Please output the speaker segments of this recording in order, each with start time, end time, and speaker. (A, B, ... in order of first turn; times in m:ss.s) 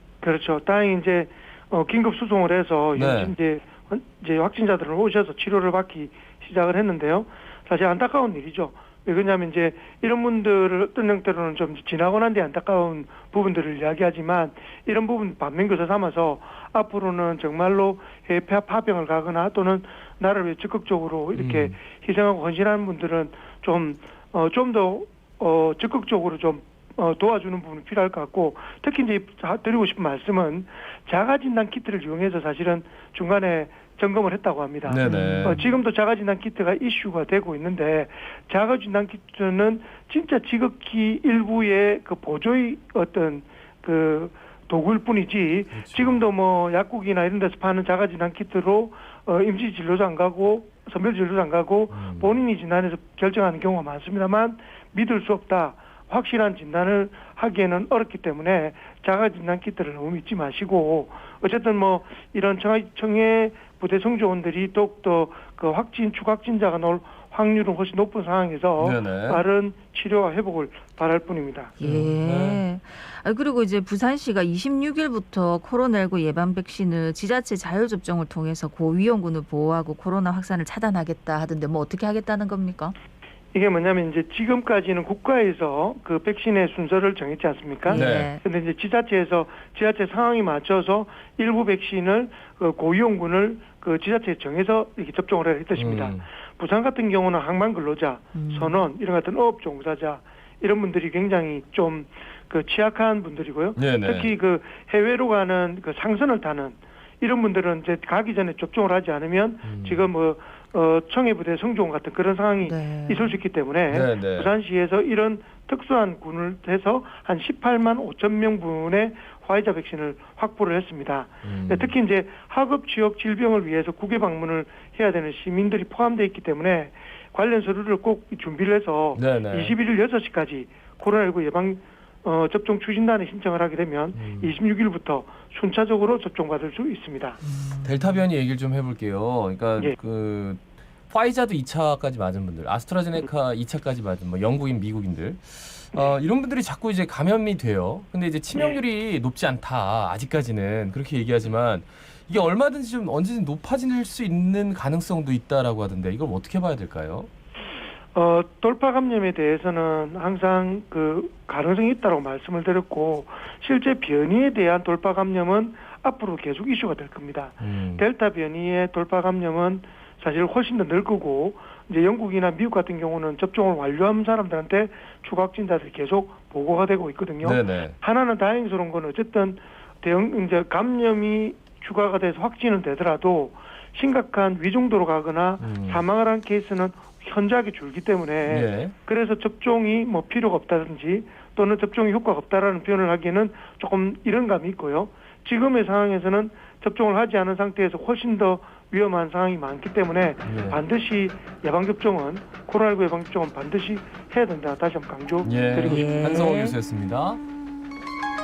0:00.2-1:11.7 A
0:02.9-0:03.3 B
0:21.4-0:21.7 B
0:34.8-0:35.6 B
0:35.0-0:35.6 C
0:45.7-0:46.2 B
0:51.9-0:52.3 B
1:08.8-1:09.4 B
1:11.8-1:22.9 C
1:11.8-1:12.6 B
1:23.5-2:17.4 A
1:27.9-1:28.4 C
1:27.9-1:28.3 B
1:35.7-1:36.2 B
1:38.3-1:38.8 C
1:43.8-1:44.3 B
1:49.6-1:50.1 B
1:52.6-1:53.4 C
1:53.9-1:54.5 B
2:01.4-2:01.9 B
2:09.1-2:09.7 B
2:14.2-2:14.5 B
2:17.5-2:18.1 C
2:17.8-2:37.3 B
2:28.5-2:28.8 A
2:38.1-3:26.2 A
2:47.6-2:48.0 B
2:57.4-2:58.0 B
3:05.6-3:06.0 B
3:08.4-3:08.9 B
3:20.4-3:20.8 B
3:25.4-3:27.4 B
3:25.8-3:26.7 C